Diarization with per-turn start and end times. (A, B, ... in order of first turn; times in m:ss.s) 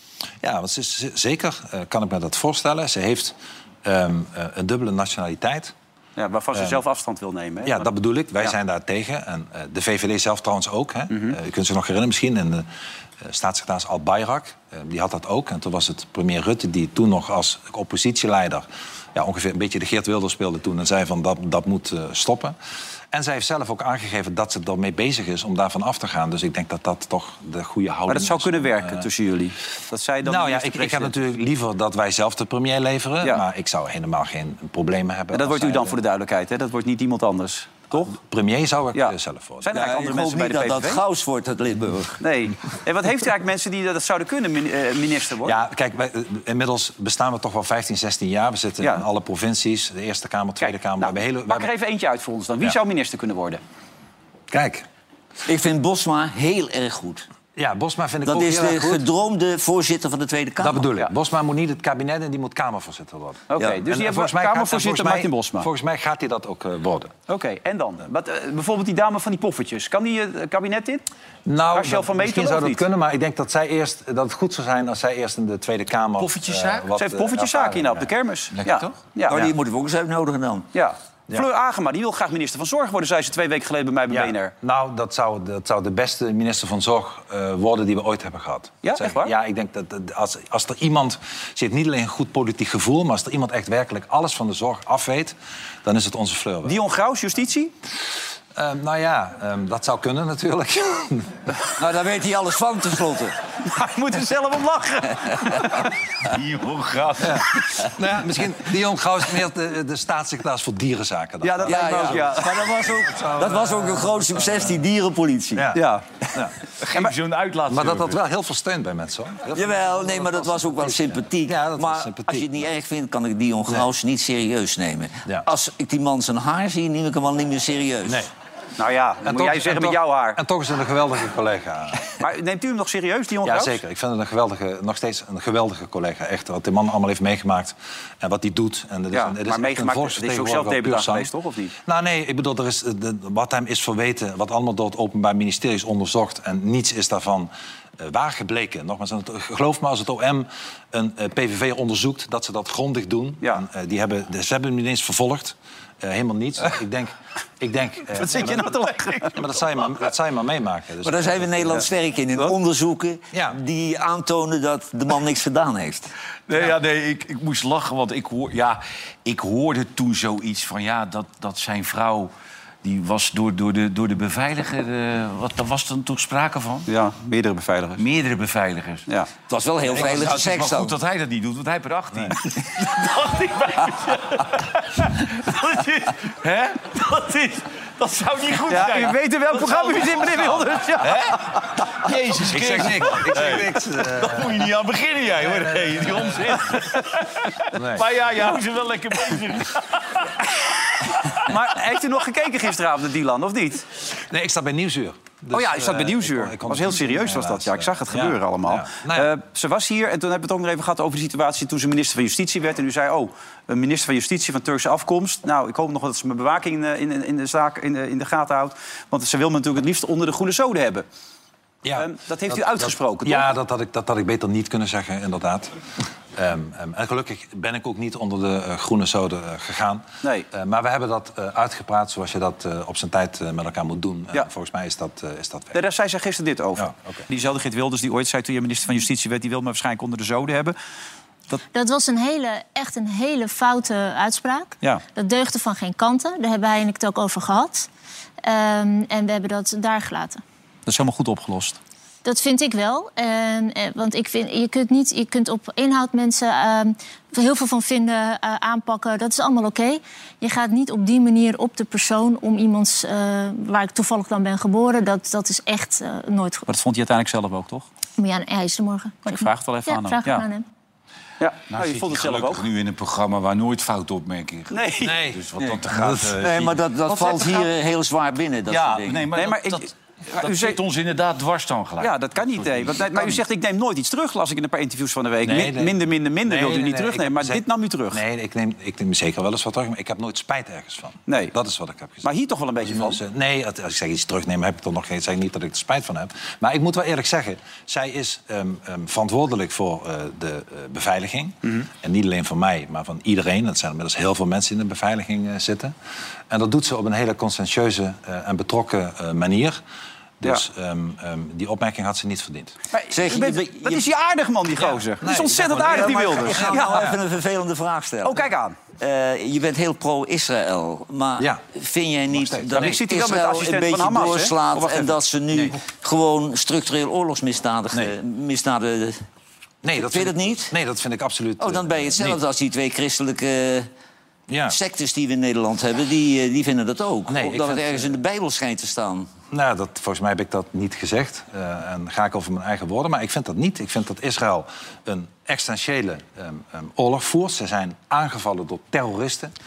0:00.4-0:05.7 A
0:06.2-0:07.9 B
0:06.5-0:06.8 A
0:07.6-0:12.7 A
0:11.1-0:11.4 B
0:13.2-0:22.6 A
0:23.1-0:29.1 A
0:28.1-0:31.2 B
0:30.2-0:36.0 A
0:35.3-0:38.1 B
0:37.9-0:39.8 A
0:38.9-0:41.0 B
0:39.7-0:42.2 C
0:42.2-0:45.6 B
0:45.4-0:51.7 A
0:50.6-0:53.6 B
0:54.5-0:54.8 A
0:55.4-0:57.2 C
0:57.6-0:59.1 A
0:58.2-1:00.8 C
1:00.6-1:07.1 A
1:03.5-1:05.7 B
1:07.3-1:11.0 B
1:11.4-1:18.1 A
1:11.7-1:12.8 B
1:16.2-1:16.9 D
1:17.0-1:19.5 B
1:18.5-1:19.0 D
1:19.3-1:20.7 C
1:20.7-1:24.5 B
1:24.1-1:36.8 A
1:28.8-1:29.3 B
1:36.6-1:37.7 B
1:38.5-1:41.4 A
1:41.8-1:43.4 C
1:43.6-1:45.9 B
1:46.2-1:47.5 D
1:47.2-1:54.8 A
1:51.4-1:52.5 B
1:51.6-1:55.7 C
1:55.5-1:56.5 A
1:55.7-1:56.0 B
1:56.8-1:58.2 D
1:57.7-2:02.7 A
1:59.5-2:08.2 C
2:08.0-2:08.3 A
2:08.8-2:10.4 B
2:09.2-2:12.1 A
2:12.2-2:13.8 B
2:13.4-2:21.3 A
2:19.1-2:21.7 B
2:21.8-2:38.8 A
2:38.1-2:39.4 B
2:39.3-2:41.8 A
2:41.0-2:46.1 C
2:43.3-2:43.6 A
2:46.5-2:52.3 D
2:52.8-2:56.9 D
2:56.9-2:58.0 B
2:58.0-2:59.0 D
2:59.5-3:00.9 C
2:59.9-3:20.2 D
3:08.7-3:11.8 B
3:12.5-3:14.6 A
3:15.4-3:16.6 A
3:16.7-3:17.0 B
3:17.7-3:18.1 A
3:21.4-3:23.9 B
3:24.1-3:29.3 A
3:25.5-3:41.0 B
3:41.8-3:45.8 A
3:42.0-3:43.5 B
3:46.3-3:55.8 A
3:55.7-4:00.8 B
3:56.8-3:57.2 A
4:01.7-4:07.9 E
4:08.4-4:10.4 E
4:10.8-4:11.8 B
4:12.2-4:26.6 E
4:26.7-4:27.8 B
4:28.2-4:30.6 E
4:29.2-4:30.4 B
4:31.4-4:32.6 B
4:31.7-4:36.8 D
4:34.7-4:35.2 B
4:35.0-4:36.6 A
4:36.4-4:39.3 C
4:37.1-4:37.6 B
4:38.7-4:43.4 D
4:39.3-4:40.8 B
4:42.0-4:48.2 B
4:45.4-5:05.9 A
4:51.3-4:51.5 B
4:52.2-4:53.2 B
5:06.5-5:09.8 A
5:10.4-5:12.8 A
5:12.9-5:17.1 B
5:13.1-5:14.1 C
5:14.8-5:17.2 A
5:15.9-5:29.2 C
5:18.2-5:18.8 B
5:21.4-5:21.7 A
5:22.3-5:23.0 A
5:22.8-5:25.1 B
5:25.5-5:25.8 A
5:29.8-5:32.4 A
5:30.0-5:30.7 C
5:31.6-5:33.9 C
5:34.5-5:34.8 A
5:34.7-5:39.3 C
5:37.3-5:38.1 A
5:39.5-5:49.5 A